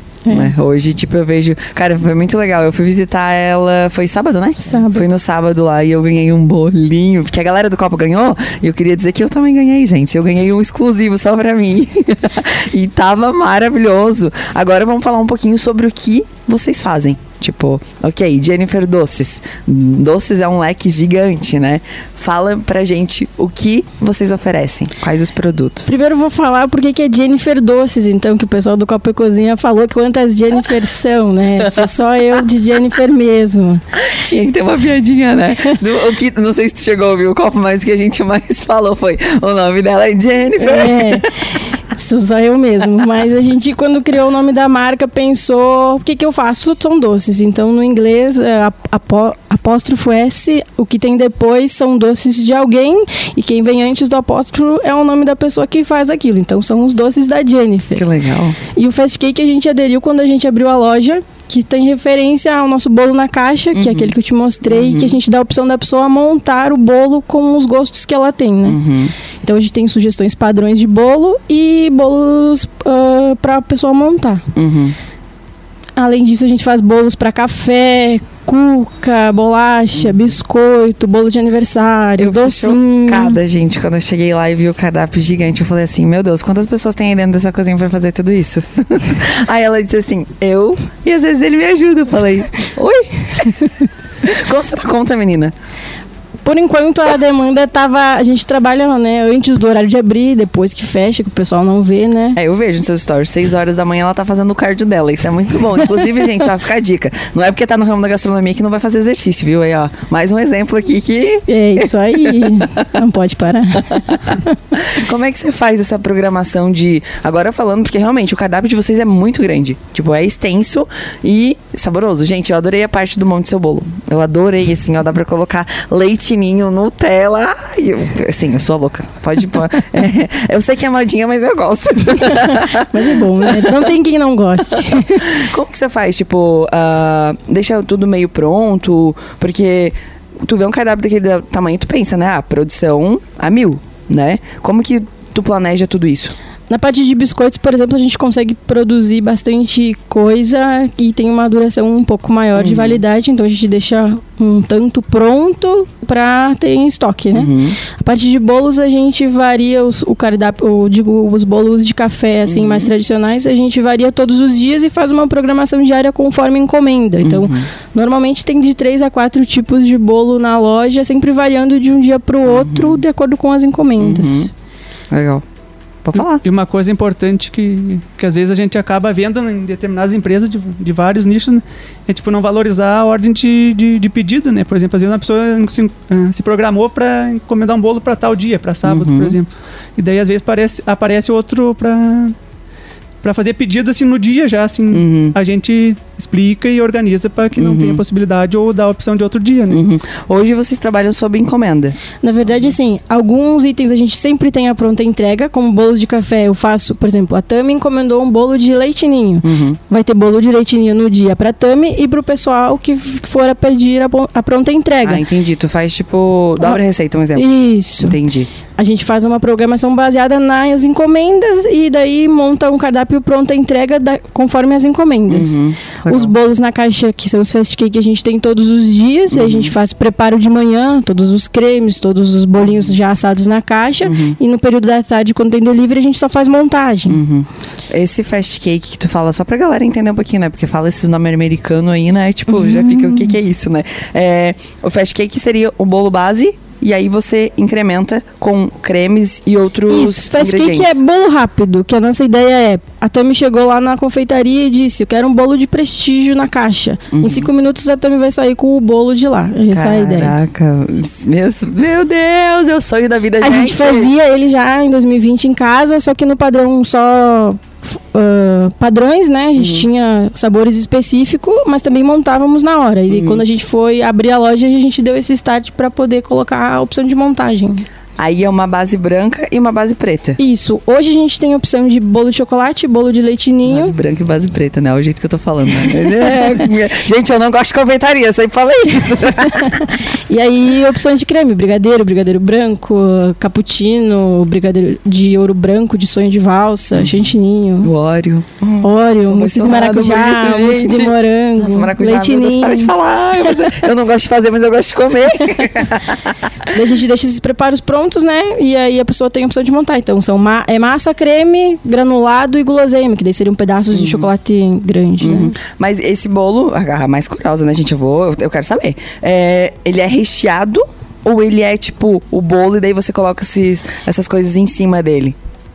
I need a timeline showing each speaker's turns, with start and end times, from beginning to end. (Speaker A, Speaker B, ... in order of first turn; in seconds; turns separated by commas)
Speaker A: 0.2-0.5, Speaker B: 0.3-26.0, Speaker A: 4.6-5.1, Speaker A: 25.9-33.8, Speaker B: 31.6-31.9, Speaker B: 33.9-41.3, Speaker A: 40.6-41.4, Speaker A: 41.9-58.0, Speaker B: 57.9-58.6, Speaker A: 58.6-68.8, Speaker B: 63.7-64.1, Speaker B: 64.7-65.2, Speaker B: 68.7-69.1, Speaker A: 69.4-74.5, Speaker B: 74.5-75.0, Speaker A: 76.0-83.4, Speaker B: 80.0-80.2, Speaker B: 82.2-95.5, Speaker A: 96.4-102.4, Speaker B: 102.3-112.9, Speaker A: 111.5-114.5, Speaker B: 113.8-133.9, Speaker A: 132.3-135.4, Speaker B: 135.1-146.3, Speaker A: 146.7-174.5, Speaker B: 152.6-153.0, Speaker B: 157.3-157.8, Speaker B: 162.4-162.9, Speaker B: 167.2-167.7, Speaker B: 172.4-173.0, Speaker B: 174.0-174.5, Speaker B: 175.1-175.4, Speaker B: 176.0-176.4, Speaker C: 176.1-192.3, Speaker B: 188.8-189.4, Speaker C: 193.2-199.8, Speaker B: 194.9-195.3, Speaker B: 197.6-198.0, Speaker B: 199.7-202.0, Speaker A: 202.2-215.2, Speaker B: 209.4-209.8, Speaker B: 215.0-217.5, Speaker A: 217.3-218.2, Speaker B: 218.0-218.5, Speaker A: 218.8-237.2, Speaker B: 225.3-226.3, Speaker B: 229.3-229.7, Speaker B: 232.6-232.9, Speaker B: 234.0-234.4, Speaker B: 237.1-251.0, Speaker A: 242.6-243.3, Speaker A: 249.9-260.4, Speaker B: 257.1-257.5, Speaker B: 259.7-264.1, Speaker A: 263.4-277.8, Speaker B: 269.6-269.9, Speaker B: 273.1-273.4, Speaker B: 278.2-280.4, Speaker A: 280.4-283.9, Speaker B: 283.6-289.9, Speaker A: 285.9-286.6, Speaker A: 289.2-297.9, Speaker B: 296.9-297.2, Speaker B: 297.8-306.7, Speaker A: 298.8-302.9, Speaker A: 303.4-303.7, Speaker A: 306.7-315.5, Speaker B: 313.9-314.3, Speaker B: 315.2-325.4